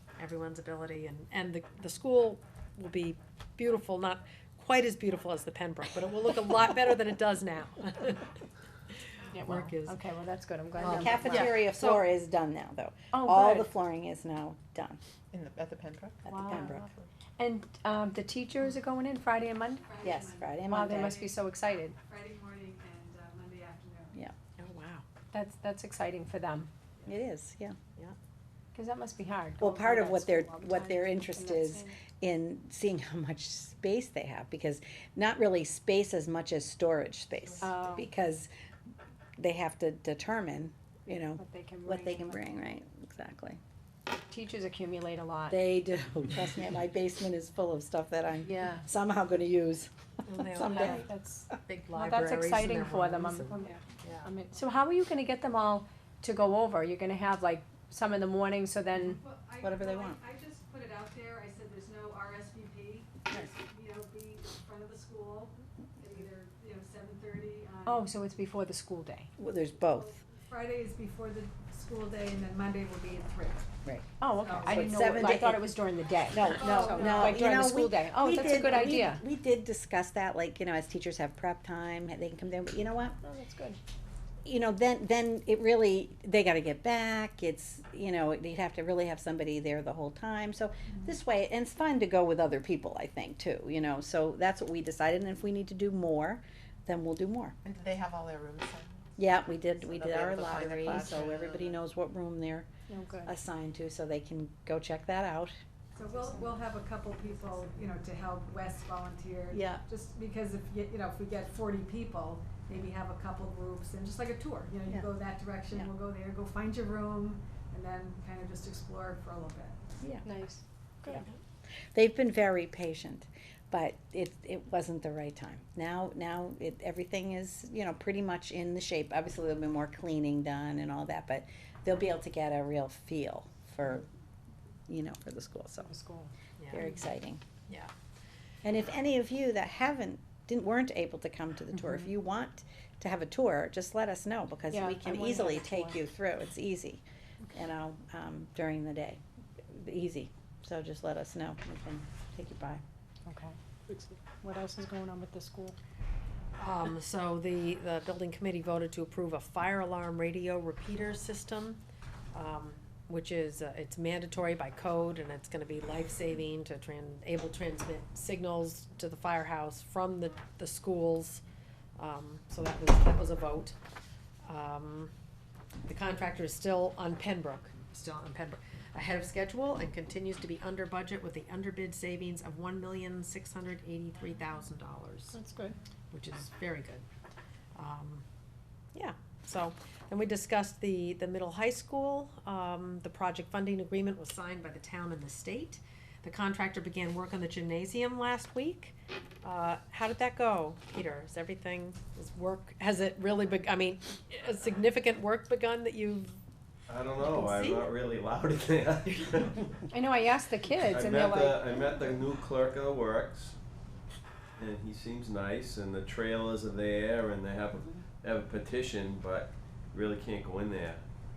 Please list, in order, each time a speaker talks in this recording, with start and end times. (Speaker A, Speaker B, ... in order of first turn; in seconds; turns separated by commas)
Speaker A: 0.2-8.4, Speaker A: 9.1-10.0, Speaker B: 9.3-11.6, Speaker A: 10.8-12.0, Speaker C: 10.8-15.0, Speaker B: 13.1-13.7, Speaker D: 15.3-16.4, Speaker C: 16.3-16.9, Speaker B: 16.3-16.9, Speaker B: 17.4-20.0, Speaker E: 19.8-21.4, Speaker C: 20.0-21.2, Speaker B: 20.6-22.0, Speaker E: 22.0-24.2, Speaker A: 24.6-25.1, Speaker B: 25.3-26.7, Speaker C: 27.1-27.8, Speaker B: 28.7-32.0, Speaker C: 29.6-38.5, Speaker B: 37.6-38.1, Speaker C: 39.4-43.6, Speaker B: 41.4-42.5, Speaker B: 44.3-45.6, Speaker C: 45.5-49.9, Speaker B: 48.5-48.9, Speaker A: 50.3-54.3, Speaker C: 50.4-51.1, Speaker B: 50.6-59.2, Speaker E: 59.0-68.2, Speaker C: 59.6-60.2, Speaker B: 67.8-69.3, Speaker C: 69.4-70.2, Speaker E: 70.3-73.7, Speaker B: 74.2-79.2, Speaker E: 74.4-75.4, Speaker C: 74.6-75.7, Speaker C: 76.3-83.2, Speaker E: 76.5-77.3, Speaker B: 83.2-83.8, Speaker C: 84.5-97.5, Speaker D: 97.6-99.2, Speaker C: 99.2-102.7, Speaker D: 99.8-101.8, Speaker B: 102.9-103.3, Speaker C: 103.2-105.6, Speaker E: 106.0-119.8, Speaker B: 106.1-106.7, Speaker B: 107.3-107.7, Speaker C: 109.5-109.8, Speaker C: 120.0-120.3, Speaker B: 120.3-121.3, Speaker C: 121.9-134.1, Speaker C: 134.9-135.9, Speaker B: 135.9-136.3, Speaker C: 136.7-137.4, Speaker C: 138.6-152.8, Speaker B: 141.8-142.1, Speaker B: 144.7-146.0, Speaker B: 153.3-153.6, Speaker B: 154.3-155.8, Speaker A: 156.6-161.8, Speaker A: 162.3-171.4, Speaker A: 172.0-173.8, Speaker A: 174.4-175.1, Speaker A: 175.9-185.4, Speaker B: 185.3-185.8, Speaker A: 186.1-187.1, Speaker A: 187.8-188.2, Speaker A: 188.9-206.4, Speaker F: 206.9-209.8, Speaker A: 207.2-207.9, Speaker B: 209.9-211.8, Speaker F: 210.8-213.6, Speaker F: 214.6-221.0